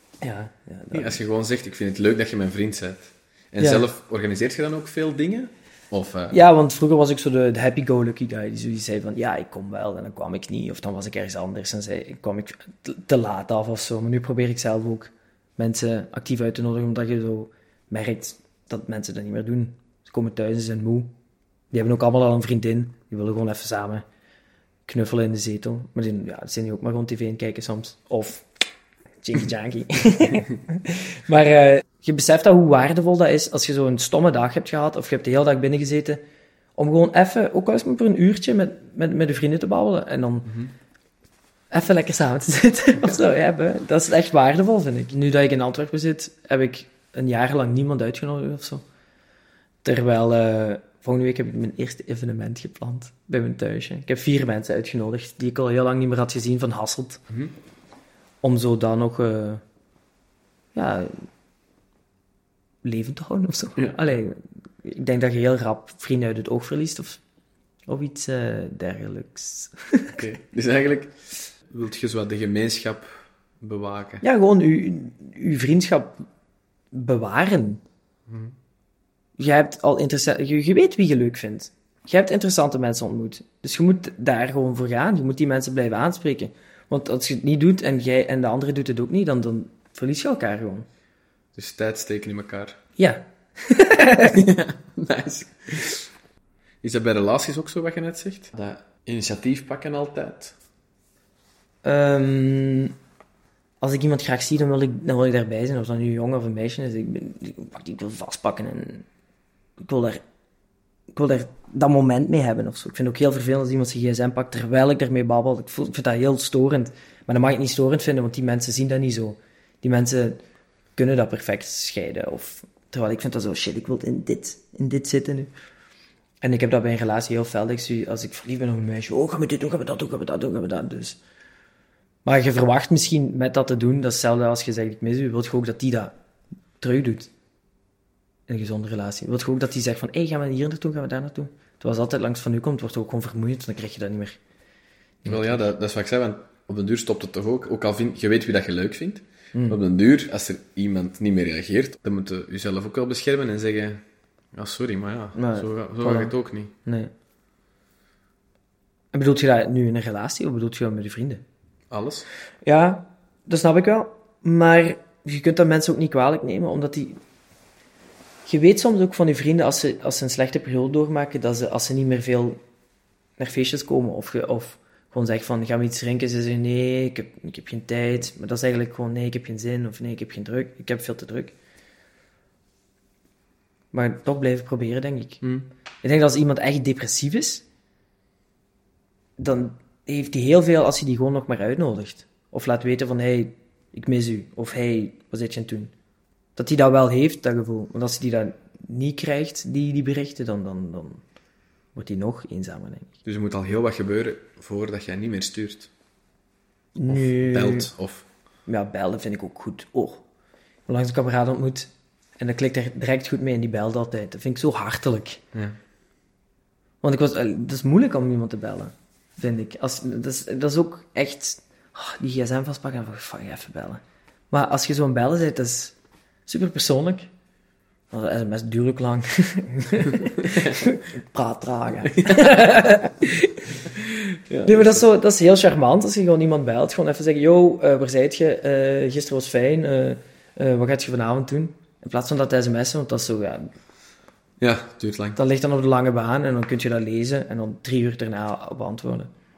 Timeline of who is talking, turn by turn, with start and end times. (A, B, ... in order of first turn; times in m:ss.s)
0:00.2-0:01.2 A
0:00.9-0:06.4 B
0:03.6-0:03.8 A
0:06.3-0:21.1 A
0:21.7-0:24.0 A
0:24.8-0:28.5 A
0:29.2-0:36.2 A
0:36.8-0:40.7 A
0:41.7-0:48.8 A
0:49.8-0:57.2 A
0:58.4-0:59.6 A
1:00.7-1:01.2 A
1:02.8-1:07.2 A
1:07.9-1:10.2 A
1:10.1-1:11.2 B
1:11.7-1:14.2 B
1:14.2-1:16.2 A
1:16.9-1:17.8 A
1:19.4-1:30.9 A
1:31.5-1:32.8 B
1:33.0-1:34.3 A
1:34.2-1:36.0 B
1:36.8-1:40.6 B
1:41.8-1:42.9 A
1:43.8-1:49.0 A
1:49.8-1:50.2 A
1:51.1-2:00.4 A
2:01.0-2:05.5 A
2:06.4-2:11.2 A
2:12.2-2:16.1 A
2:16.8-2:17.3 A
2:18.5-2:24.4 A
2:25.2-2:34.0 B
2:29.5-2:29.8 A
2:34.5-2:36.7 B
2:35.4-2:37.1 A
2:39.1-2:41.4 A
2:41.9-2:42.3 B
2:42.6-2:47.2 A
2:48.4-2:52.6 A
2:53.4-3:01.5 A
3:03.9-3:05.4 A
3:06.0-3:07.6 A
3:09.4-3:15.9 A
3:16.6-3:21.2 A
3:21.9-3:23.1 A
3:23.2-3:25.9 B
3:27.0-3:27.9 A
3:27.1-3:28.3 B
3:28.7-3:30.2 A
3:30.9-3:35.4 A
3:37.0-3:47.3 A
3:48.1-3:54.0 A
3:54.1-3:55.0 B
3:54.6-4:03.7 A
4:04.6-4:05.4 B
4:05.4-4:09.3 A